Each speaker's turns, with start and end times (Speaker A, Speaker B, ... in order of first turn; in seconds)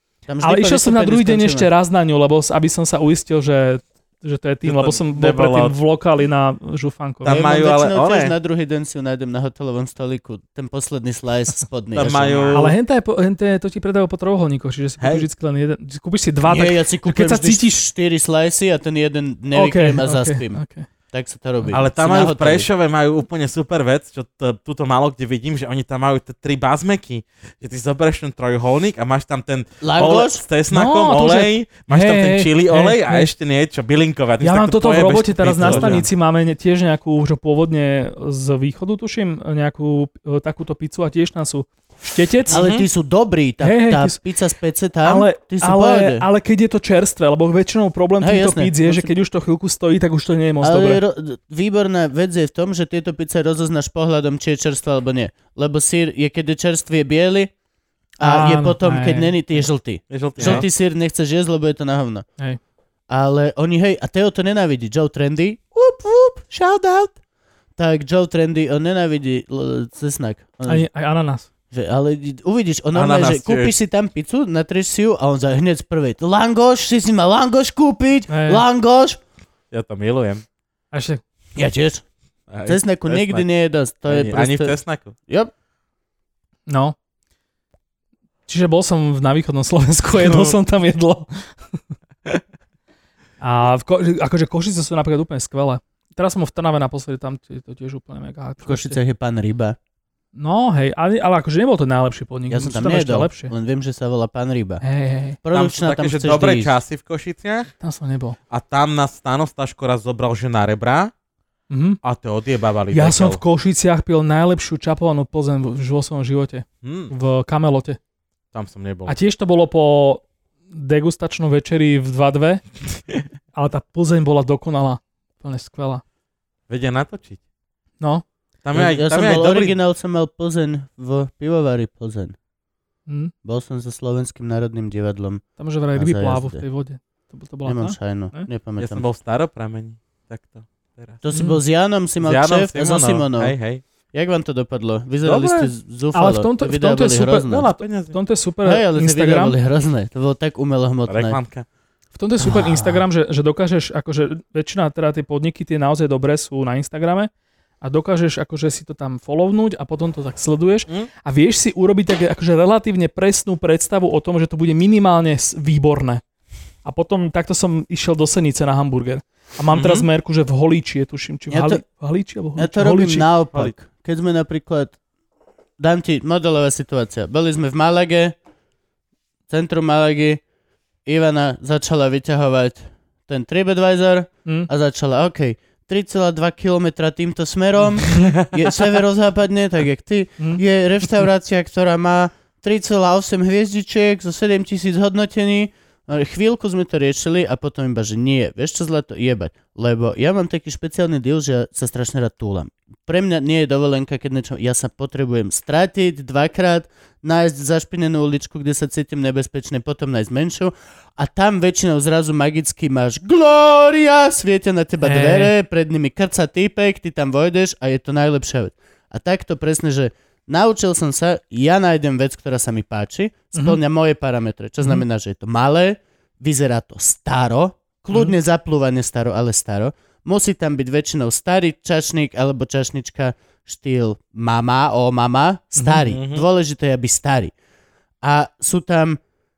Speaker A: 0.3-1.7, 7.2-12.7, 16.5-20.6, 21.1-22.7, 29.8-30.4, 35.6-36.0, 42.5-46.2, 48.2-49.1, 50.6-57.5, 58.2-62.2, 63.1-67.2, 67.8-70.8, 71.7-79.2, 81.5-82.0, 82.6-85.5, 98.6-99.8, 102.5-104.8, 105.4-106.8, 128.7-132.3, 133.4-135.4, 135.9-136.6, 137.6-139.0, 141.2-143.5, 144.1-147.7, 148.6-151.4, 152.4-153.0, 171.5-171.8, 172.6-175.0, 175.8-178.3, 179.5-180.4, 181.1-237.5, 238.2-239.2
Speaker B: 0.4-7.3, 12.5-17.8, 19.5-20.9, 30.7-33.3, 34.4-42.6, 43.6-44.2, 45.0-51.0, 58.2-59.6, 70.7-71.5, 78.3-78.6, 80.9-81.2, 86.7-86.9, 88.5-91.3, 93.4-99.0, 100.3-103.5, 104.8-105.4, 107.8-108.4, 111.7-112.0, 112.9-118.0, 119.0-122.6, 123.5-126.0, 133.1-133.3, 135.6-138.5, 141.3-141.6, 146.1-149.5, 152.1-157.3, 157.8-166.2, 166.8-173.3, 215.0-215.5, 223.5-223.8
Speaker C: 4.6-5.7, 7.2-8.3, 11.9-12.7, 15.0-15.3, 21.7-36.0, 42.5-42.9, 60.1-60.6, 72.9-73.7, 79.7-80.4, 82.5-83.5, 84.1-85.1, 90.2-90.6, 105.5-107.7, 108.5-111.1, 112.0-113.4, 116.8-117.1, 118.5-119.1, 126.7-127.4, 128.6-129.8, 138.8-141.2, 142.2-143.8, 145.2-145.7, 147.5-148.2, 151.1-151.6, 169.7-170.1, 188.0-188.9, 236.1-236.4